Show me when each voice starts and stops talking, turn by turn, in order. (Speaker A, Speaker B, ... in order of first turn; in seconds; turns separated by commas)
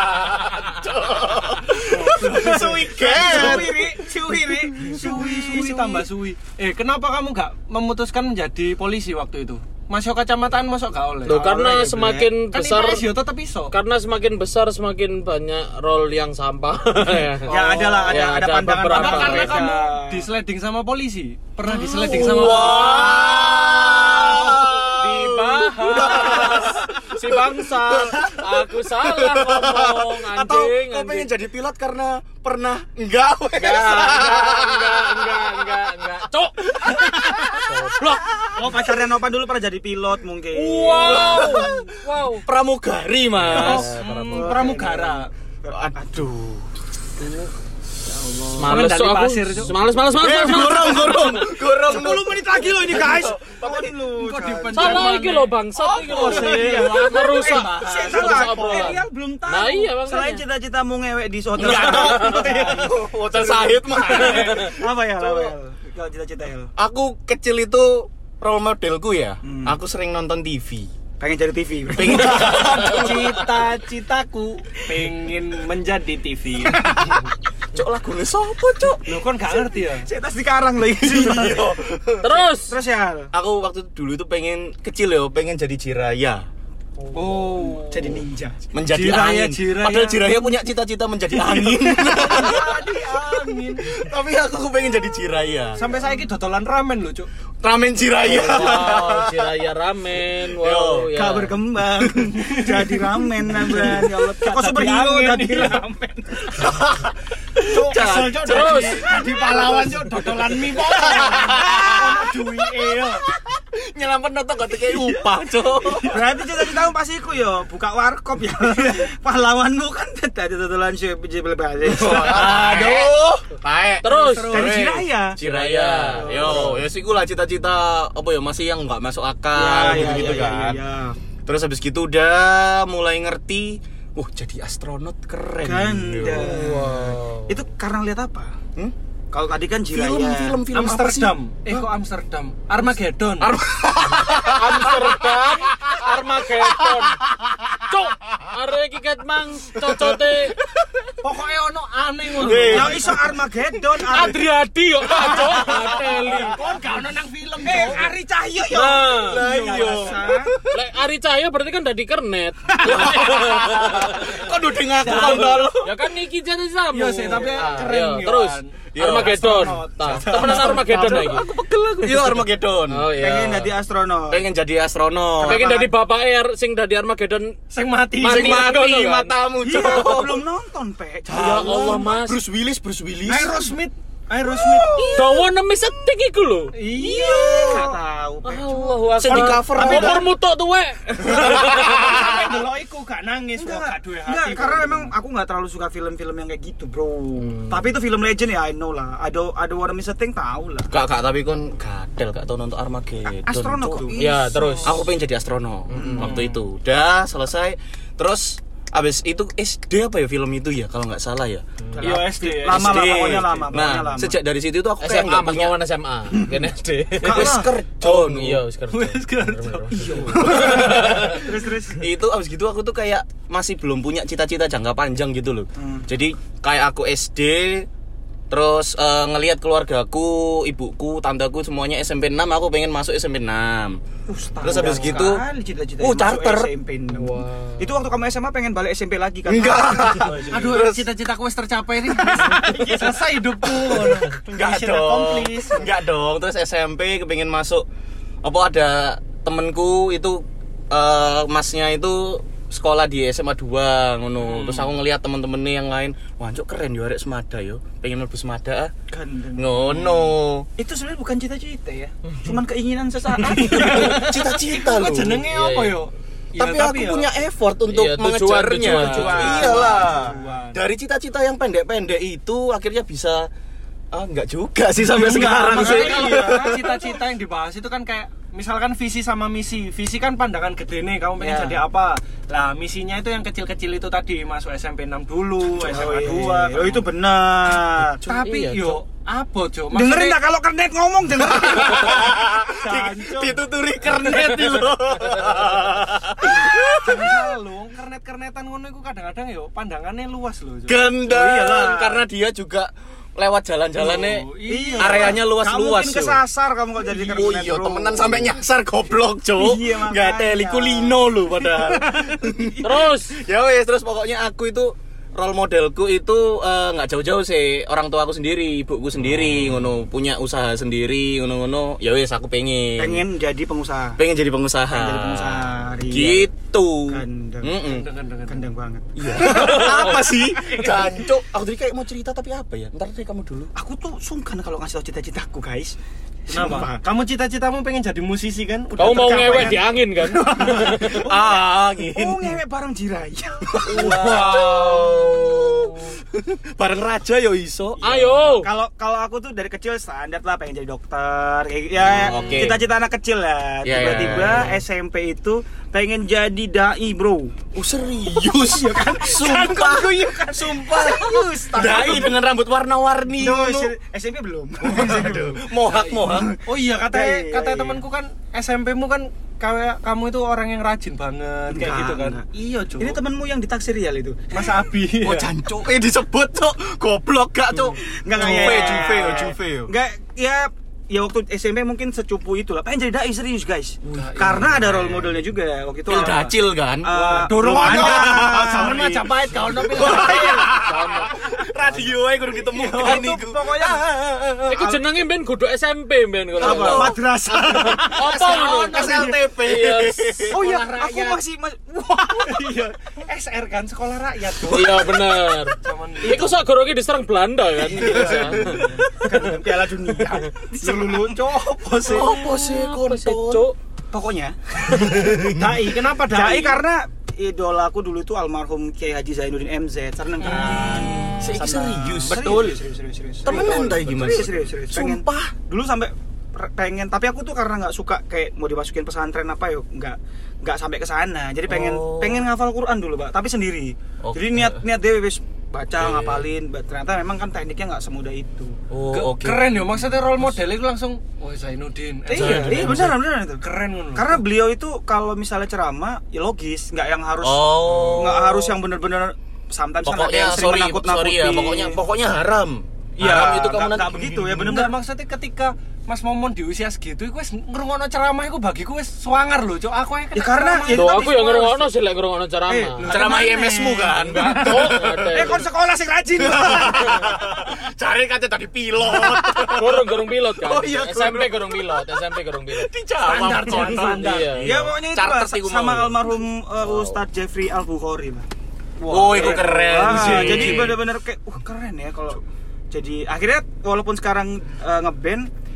Speaker A: 0.5-3.9, Speaker B: 1.9-6.1, Speaker C: 2.2-3.7, Speaker C: 4.8-11.4, Speaker D: 11.2-13.1, Speaker B: 11.3-12.3, Speaker C: 12.5-13.7, Speaker D: 13.7-17.5, Speaker C: 17.5-18.2, Speaker B: 17.5-20.2, Speaker D: 18.1-19.7, Speaker C: 18.9-23.5, Speaker A: 21.9-35.4, Speaker B: 22.0-22.6, Speaker D: 22.4-31.3, Speaker D: 33.5-38.2, Speaker A: 36.7-37.6, Speaker B: 38.5-41.5, Speaker C: 40.5-42.4, Speaker D: 40.7-41.7, Speaker A: 41.0-41.7, Speaker A: 42.4-43.9, Speaker D: 43.3-44.8, Speaker C: 43.5-45.3, Speaker B: 44.3-46.6, Speaker C: 47.2-47.5, Speaker C: 48.0-49.7, Speaker D: 48.5-51.5, Speaker A: 50.2-53.9, Speaker B: 51.8-55.4, Speaker C: 54.1-59.0, Speaker D: 54.7-60.4, Speaker B: 56.0-66.7, Speaker A: 61.6-65.5, Speaker C: 61.6-62.8, Speaker C: 64.0-64.3, Speaker A: 66.8-70.9, Speaker B: 69.4-69.8, Speaker B: 71.2-72.6, Speaker A: 71.9-73.4, Speaker C: 72.1-76.9, Speaker B: 76.8-77.2, Speaker A: 77.7-79.0, Speaker C: 79.0-80.1, Speaker B: 79.5-81.7, Speaker A: 81.0-82.4, Speaker D: 82.2-82.7, Speaker B: 82.6-83.3, Speaker A: 83.3-86.5, Speaker C: 87.1-88.2, Speaker B: 87.6-88.6, Speaker A: 88.7-92.8, Speaker C: 88.9-90.3, Speaker B: 91.3-92.4, Speaker C: 92.1-94.0, Speaker A: 93.8-95.8, Speaker C: 95.8-97.3, Speaker A: 97.6-99.5, Speaker D: 98.2-101.6, Speaker A: 100.6-101.1, Speaker B: 101.1-106.7, Speaker C: 102.3-105.8, Speaker A: 106.5-107.1, Speaker C: 107.6-113.2, Speaker A: 107.7-112.4, Speaker D: 108.0-109.0, Speaker A: 113.3-116.2, Speaker C: 114.7-116.3, Speaker B: 116.0-122.9, Speaker A: 121.9-130.8, Speaker C: 122.1-123.2, Speaker D: 124.0-124.7, Speaker C: 124.1-124.8, Speaker B: 124.5-125.4, Speaker D: 125.4-126.8, Speaker B: 126.2-126.8, Speaker B: 129.5-131.2, Speaker A: 131.4-136.6, Speaker B: 135.6-138.5, Speaker D: 136.3-137.6, Speaker B: 139.3-140.6, Speaker A: 139.9-141.8, Speaker C: 140.7-143.5, Speaker A: 143.4-147.7, Speaker D: 144.2-147.2, Speaker D: 147.8-150.6, Speaker A: 149.8-151.1, Speaker C: 151.2-153.2, Speaker A: 152.3-153.2, Speaker B: 152.6-154.4, Speaker D: 154.0-156.6, Speaker B: 155.4-155.7, Speaker A: 155.4-156.0, Speaker C: 155.6-158.2, Speaker B: 157.6-160.5, Speaker D: 158.7-159.5, Speaker A: 158.9-160.7, Speaker D: 160.7-164.5, Speaker A: 162.8-165.9, Speaker C: 165.0-165.6, Speaker D: 165.0-171.5, Speaker C: 166.9-168.8, Speaker B: 167.3-167.6, Speaker A: 168.9-169.4, Speaker B: 169.2-170.8, Speaker C: 170.0-170.9, Speaker A: 170.3-173.1, Speaker D: 172.0-172.2, Speaker D: 172.9-173.7, Speaker B: 173.1-174.4, Speaker A: 174.3-175.6, Speaker B: 175.4-175.9, Speaker D: 175.4-177.6, Speaker C: 177.7-178.7, Speaker D: 178.2-179.3, Speaker A: 178.2-180.4, Speaker B: 179.6-181.9, Speaker C: 181.3-181.9, Speaker A: 181.3-183.6, Speaker D: 181.3-182.4, Speaker C: 183.3-185.1, Speaker A: 184.7-185.4, Speaker B: 184.8-185.2, Speaker D: 185.1-186.7, Speaker C: 186.7-187.9, Speaker A: 187.0-187.9, Speaker B: 187.0-190.2, Speaker D: 188.4-192.3, Speaker A: 189.2-190.2, Speaker C: 191.3-195.1, Speaker B: 193.6-200.9, Speaker D: 197.4-197.8, Speaker A: 200.9-204.1, Speaker B: 203.4-205.1, Speaker D: 204.2-204.9, Speaker A: 204.8-211.6, Speaker B: 205.9-206.4, Speaker D: 205.9-206.2, Speaker C: 206.2-206.6, Speaker B: 211.9-214.4, Speaker C: 212.0-213.7, Speaker A: 212.6-215.8, Speaker D: 215.0-221.4, Speaker B: 217.2-217.8, Speaker A: 217.2-218.6, Speaker C: 218.9-220.3, Speaker B: 219.9-222.0, Speaker A: 220.3-221.4, Speaker A: 222.0-227.9, Speaker B: 225.8-226.1, Speaker A: 228.5-234.0, Speaker B: 234.3-240.8, Speaker C: 234.6-235.3, Speaker A: 234.6-235.4, Speaker A: 236.0-236.7, Speaker D: 237.1-238.0, Speaker A: 239.4-241.1, Speaker C: 240.5-245.9, Speaker B: 242.1-243.1, Speaker A: 244.1-247.8, Speaker A: 248.4-258.9, Speaker C: 254.4-255.0, Speaker B: 259.1-264.4, Speaker A: 259.6-260.7, Speaker C: 263.4-267.3, Speaker A: 263.6-265.4, Speaker D: 265.5-266.0, Speaker A: 266.6-273.5, Speaker D: 267.9-269.8, Speaker C: 268.8-270.8, Speaker B: 269.1-270.6, Speaker A: 274.1-277.1, Speaker C: 275.1-287.1, Speaker B: 275.2-276.6, Speaker B: 281.4-281.8, Speaker B: 285.7-288.2, Speaker C: 288.2-290.4, Speaker D: 288.3-289.0, Speaker B: 289.9-292.3, Speaker A: 291.4-297.4, Speaker C: 292.7-294.4, Speaker C: 296.4-301.1, Speaker A: 300.9-304.4, Speaker B: 301.2-302.2, Speaker C: 303.9-305.4, Speaker B: 304.7-308.5, Speaker A: 305.0-306.4, Speaker A: 307.1-323.2, Speaker B: 309.6-312.9, Speaker D: 312.8-313.4, Speaker B: 323.0-324.2, Speaker A: 324.2-328.0, Speaker B: 324.9-326.5, Speaker B: 327.1-327.8, Speaker C: 327.8-328.7, Speaker B: 328.5-331.2, Speaker A: 329.1-333.7, Speaker B: 333.7-337.0, Speaker C: 336.5-340.2, Speaker D: 339.0-341.3, Speaker B: 339.4-344.6, Speaker A: 340.8-342.5, Speaker A: 343.7-348.1, Speaker C: 343.9-344.6, Speaker D: 344.1-345.0, Speaker D: 348.0-348.7, Speaker B: 348.6-357.5, Speaker A: 352.0-352.8, Speaker A: 353.8-354.8, Speaker A: 357.7-363.9, Speaker B: 358.6-362.3, Speaker C: 360.1-362.3, Speaker B: 363.4-368.0, Speaker A: 364.8-366.5, Speaker C: 365.8-373.2, Speaker B: 371.7-372.4, Speaker B: 373.0-374.6, Speaker C: 374.5-375.5, Speaker A: 375.2-379.9, Speaker B: 378.0-390.5, Speaker C: 378.4-378.8, Speaker A: 384.1-385.2, Speaker C: 384.1-385.1, Speaker A: 386.1-389.1, Speaker C: 386.1-386.3, Speaker C: 387.1-390.7, Speaker A: 389.6-393.9, Speaker D: 390.7-392.2, Speaker C: 392.7-394.6, Speaker B: 392.9-394.0, Speaker D: 394.7-397.1, Speaker A: 396.6-397.2, Speaker B: 396.6-399.3, Speaker C: 397.7-399.4, Speaker D: 397.8-400.3, Speaker A: 398.6-400.6, Speaker B: 400.5-402.8, Speaker C: 400.5-401.4, Speaker C: 402.4-405.2, Speaker D: 404.7-409.3, Speaker C: 405.8-406.5, Speaker A: 407.9-409.0, Speaker C: 408.0-409.0, Speaker B: 408.1-408.3, Speaker B: 409.2-411.4, Speaker C: 410.2-412.4, Speaker A: 412.0-413.6, Speaker D: 412.2-413.8, Speaker B: 414.1-414.6, Speaker D: 414.9-415.2, Speaker A: 415.0-415.6, Speaker C: 415.4-416.8, Speaker B: 416.3-438.7, Speaker C: 420.4-421.0, Speaker A: 420.4-422.8, Speaker A: 423.4-425.5, Speaker C: 423.4-424.4, Speaker A: 431.7-432.4, Speaker A: 434.2-434.8, Speaker A: 436.0-436.4, Speaker A: 438.9-439.8, Speaker C: 439.1-443.1, Speaker B: 442.3-443.6, Speaker A: 442.3-443.1, Speaker C: 443.6-444.4, Speaker B: 444.1-452.0, Speaker A: 447.4-448.7, Speaker A: 450.0-454.8, Speaker B: 453.2-454.9, Speaker C: 454.5-461.4, Speaker B: 460.3-461.8, Speaker D: 460.9-463.1, Speaker B: 462.7-464.1, Speaker C: 463.0-464.6, Speaker A: 463.1-465.5, Speaker D: 464.2-465.6, Speaker B: 465.2-467.6, Speaker A: 466.4-471.8, Speaker D: 469.7-472.9, Speaker A: 472.7-476.2, Speaker C: 473.2-474.5, Speaker D: 473.6-474.7, Speaker B: 474.6-478.4, Speaker D: 476.8-477.2, Speaker B: 479.0-485.5, Speaker A: 479.1-481.0, Speaker C: 479.1-480.8